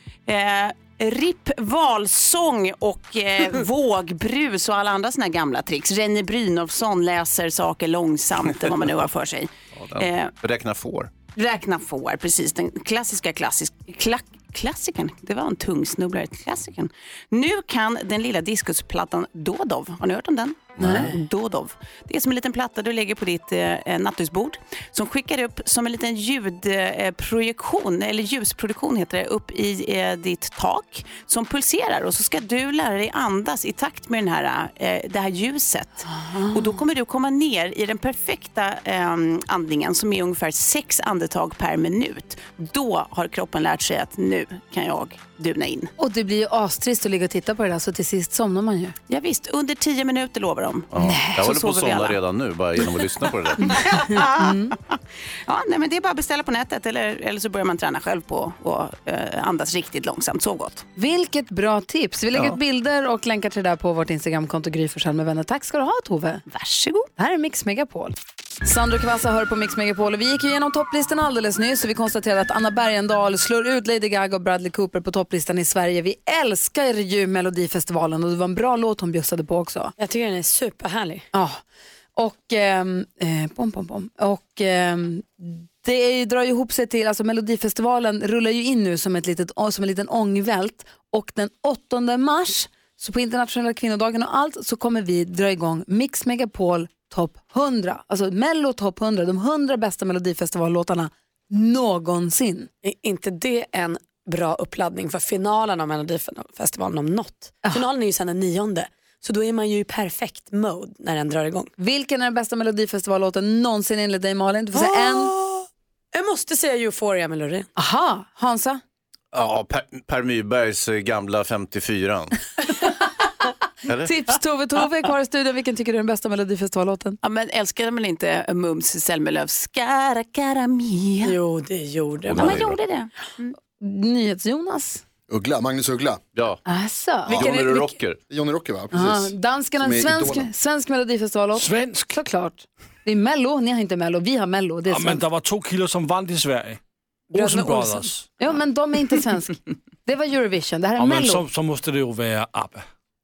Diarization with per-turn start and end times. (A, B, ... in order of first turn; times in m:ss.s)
0:00.3-0:10.3 A
0:09.7-0:11.1 B
0:11.4-0:45.9 A
0:20.8-0:21.1 B
0:20.8-0:21.2 C
0:36.1-0:36.7 D
0:46.0-0:49.0 D
0:49.1-0:50.9 A
0:50.9-0:53.8 B
0:51.0-0:52.1 D
0:53.6-0:54.9 A
0:54.1-0:54.7 D
0:55.5-1:00.9 A
1:01.0-1:06.4 D
1:06.5-1:07.1 A
1:07.2-1:19.9 D
1:20.0-1:21.3 C
1:21.3-1:21.6 D
1:22.2-1:42.7 D
1:42.8-1:51.7 C
1:51.8-1:55.3 D
1:54.7-1:57.7 C
1:57.8-1:58.8 D
1:59.3-2:02.4 B
2:03.9-2:04.1 B
2:04.0-2:07.2 D
2:07.2-2:11.4 A
2:11.2-2:12.6 C
2:12.3-2:12.8 B
2:12.4-2:13.6 A
2:13.8-2:15.0 D
2:15.3-2:16.2 E
2:16.7-2:17.6 D
2:17.3-2:18.2 B
2:18.3-2:20.5 E
2:18.9-2:25.2 D
2:21.6-2:22.2 F
2:24.9-2:26.8 F
2:27.3-2:28.1 C
2:27.4-2:28.3 F
2:27.4-2:31.4 D
2:31.0-2:32.9 F